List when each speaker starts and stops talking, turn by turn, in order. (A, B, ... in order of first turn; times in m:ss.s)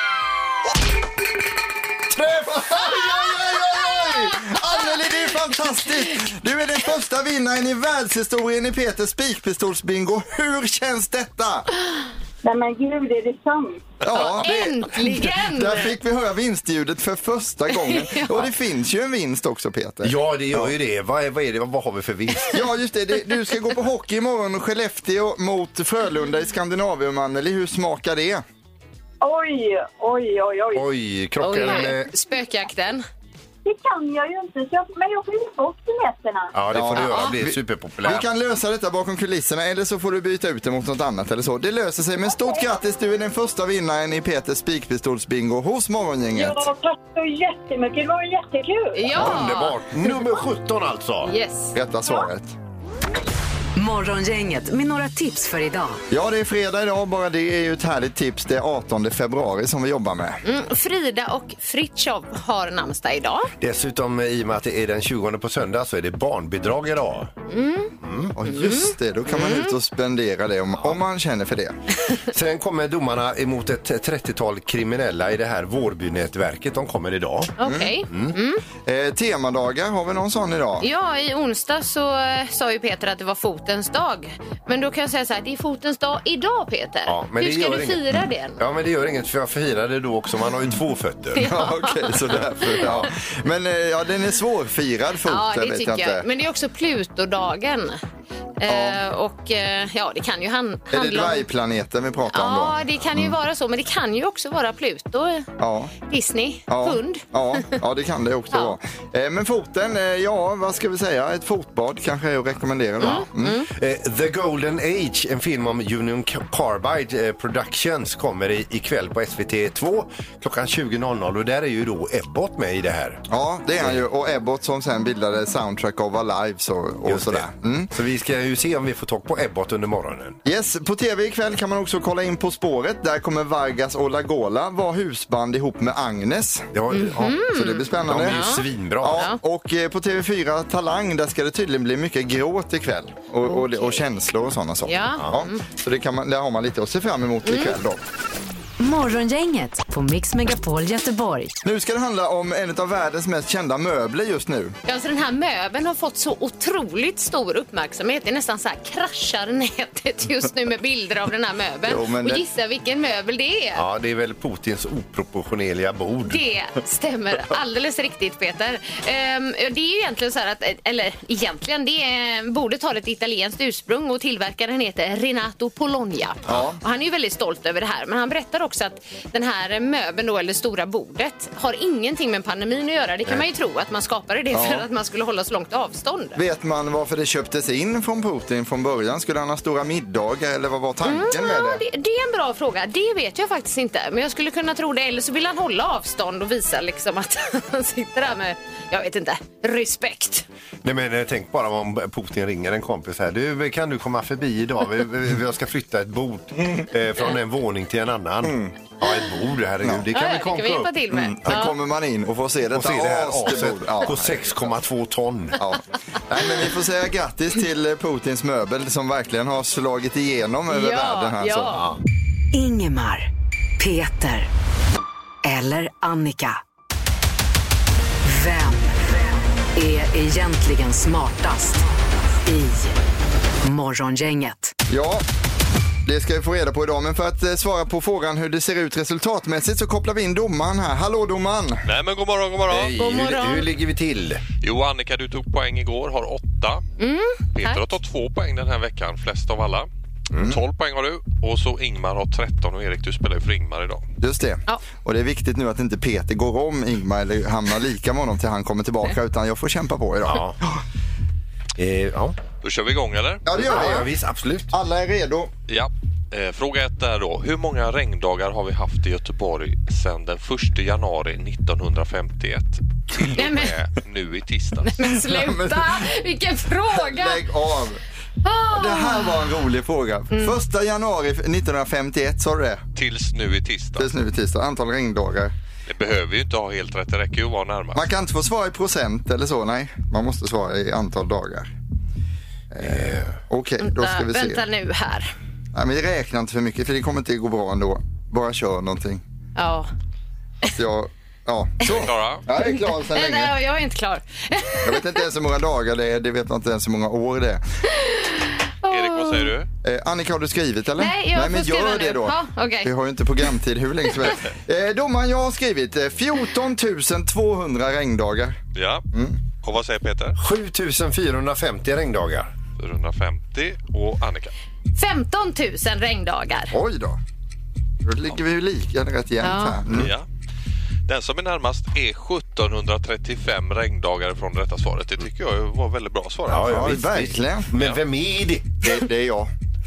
0:02.1-0:11.7 A
0:12.4-0:13.8 B
0:14.0-0:20.7 A
0:14.1-0:16.0 C
0:17.7-0:18.5 C
0:20.0-0:22.6 D
0:22.5-0:28.4 A
0:29.2-0:30.9 B
0:30.8-0:32.1 D
0:31.4-0:33.0 C
0:33.6-0:36.5 B
0:36.5-0:38.2 D
0:36.7-0:46.7 A
0:36.9-0:37.4 C
0:42.3-0:42.7 B
0:46.3-0:49.2 B
0:48.9-0:49.8 C
0:49.1-0:51.3 D
0:51.2-0:51.7 C
0:51.7-0:52.6 A
0:53.8-0:56.0 E
0:56.1-1:00.4 A
1:00.4-1:03.5 C
1:03.6-1:07.3 D
1:07.5-1:09.7 C
1:08.0-1:08.3 D
1:08.4-1:11.8 A
1:12.3-1:17.6 D
1:17.6-1:18.6 C
1:17.6-1:18.0 A
1:18.1-1:18.4 D
1:18.8-1:20.9 A
1:20.8-1:28.6 C
1:27.1-1:31.5 D
1:31.4-1:32.8 C
1:31.4-1:36.3 A
1:32.8-1:33.1 D
1:35.3-1:38.0 C
1:38.6-1:41.5 C
1:38.7-1:39.0 A
1:40.9-1:43.3 A
1:42.3-1:45.5 C
1:45.6-1:45.9 A
1:46.1-1:47.8 C
1:46.7-1:53.6 A
1:53.0-1:53.7 C
1:53.7-2:03.2 D
2:03.3-2:07.9 A
2:03.8-2:04.0 D
2:07.1-2:10.4 D
2:10.4-2:16.7 A
2:16.7-2:17.4 D
2:16.9-2:19.4 C
2:17.3-2:28.0 A
2:18.0-2:19.2 D
2:23.5-2:24.0 C
2:24.9-2:25.6 C
2:27.4-2:27.7 C
2:28.8-2:31.5 E
2:31.6-2:34.8 A
2:34.9-2:43.8 C
2:41.8-2:42.4 A
2:43.8-2:46.4 D
2:46.3-3:06.4 C
2:56.5-2:56.8 A
3:04.5-3:04.9 A
3:06.4-3:11.8 A
3:11.0-3:20.4 C
3:20.8-3:31.0 D
3:28.4-3:28.8 A
3:29.8-3:30.1 A
3:30.1-3:31.8 C
3:31.1-3:34.7 A
3:32.7-3:35.6 D
3:35.6-3:41.8 A
3:40.7-3:41.8 C
3:42.5-3:44.5 E
3:45.4-3:46.6 E
3:48.2-3:51.9 E
3:52.4-3:53.0 E
3:53.6-3:54.7 E
3:54.9-3:55.2 A
3:56.1-4:01.8 A
4:01.8-4:02.9 F
4:02.7-4:04.4 D
4:02.9-4:03.7 C
4:04.6-4:06.8 F
4:07.0-4:07.9 C
4:07.6-4:09.9 F
4:10.4-4:14.0 F
4:14.2-4:20.8 A
4:20.3-4:20.6 D
4:21.8-4:22.4 D
4:22.6-4:23.4 F
4:23.4-4:24.1 A
4:23.5-4:24.7 D
4:24.7-4:25.5 A
4:25.7-4:35.0 F
4:33.3-4:33.7 C
4:34.9-4:37.4 C
4:35.0-4:36.1 A
4:36.9-4:38.0 A
4:38.4-4:39.5 C
4:38.7-4:42.8 A
4:40.3-4:40.6 C
4:43.0-4:44.1 F
4:44.0-4:45.5 A
4:45.9-4:48.0 F
4:48.0-4:51.7 A
4:52.7-4:54.6 A
4:52.8-4:53.3 D
4:53.8-4:55.3 C
4:55.7-4:59.2 A
4:59.6-4:59.9 C
5:00.7-5:03.6 A
5:01.9-5:02.4 F
5:02.5-5:05.2 C
5:04.8-5:07.6 A
5:08.0-5:09.5 C
5:08.9-5:09.7 F
5:09.8-5:18.6 A
5:11.0-5:12.9 C
5:18.7-5:19.1 F
5:19.1-5:19.4 A
5:19.6-5:20.4 F
5:20.4-5:22.5 D
5:22.8-5:24.5 F
5:25.0-5:26.8 C
5:26.7-5:27.2 A
5:28.0-5:30.1 A
5:29.4-5:29.8 C
5:29.9-5:30.3 F
5:31.1-5:37.0 F
5:36.5-5:38.8 D
5:36.6-5:37.7 A
5:38.8-5:39.5 A